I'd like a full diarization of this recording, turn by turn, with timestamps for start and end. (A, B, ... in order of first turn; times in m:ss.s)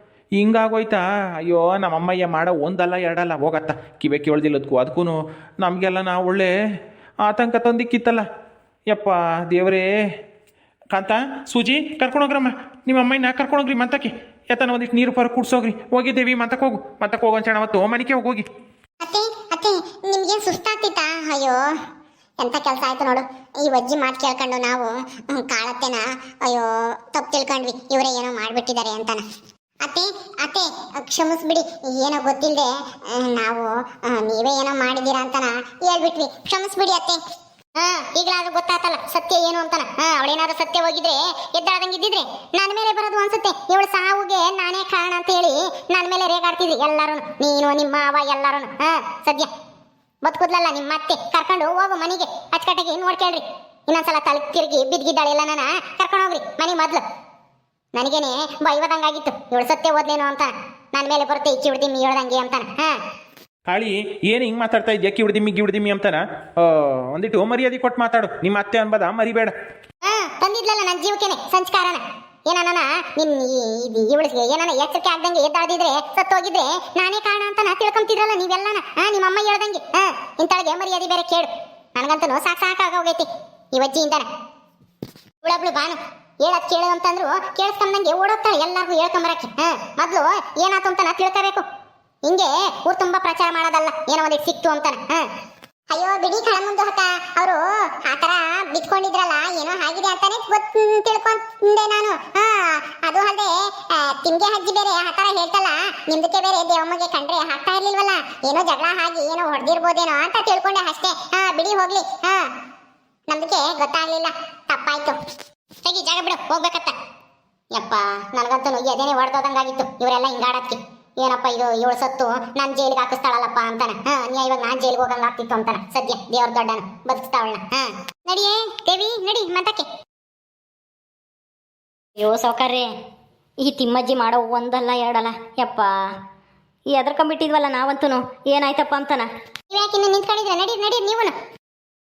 0:00.4-0:06.5 A
0:07.2-0:08.2 A
0:08.9-0:09.8 A
0:10.9-0:18.4 A
0:19.0-0:21.6 B
0:22.4-0:29.2 B
0:29.8-0:37.2 B
0:37.8-0:49.5 B
0:50.2-0:57.0 B
0:57.9-1:03.0 B
1:03.7-1:09.5 A
1:10.0-1:24.3 B
1:25.4-1:31.6 B
1:32.2-1:35.3 B
1:35.9-1:52.5 B
1:53.3-1:55.2 B
1:55.8-1:57.0 B
1:57.7-2:09.8 B
2:12.2-2:12.9 C
2:13.6-2:16.1 C
2:16.9-2:19.3 C
2:19.7-2:21.3 B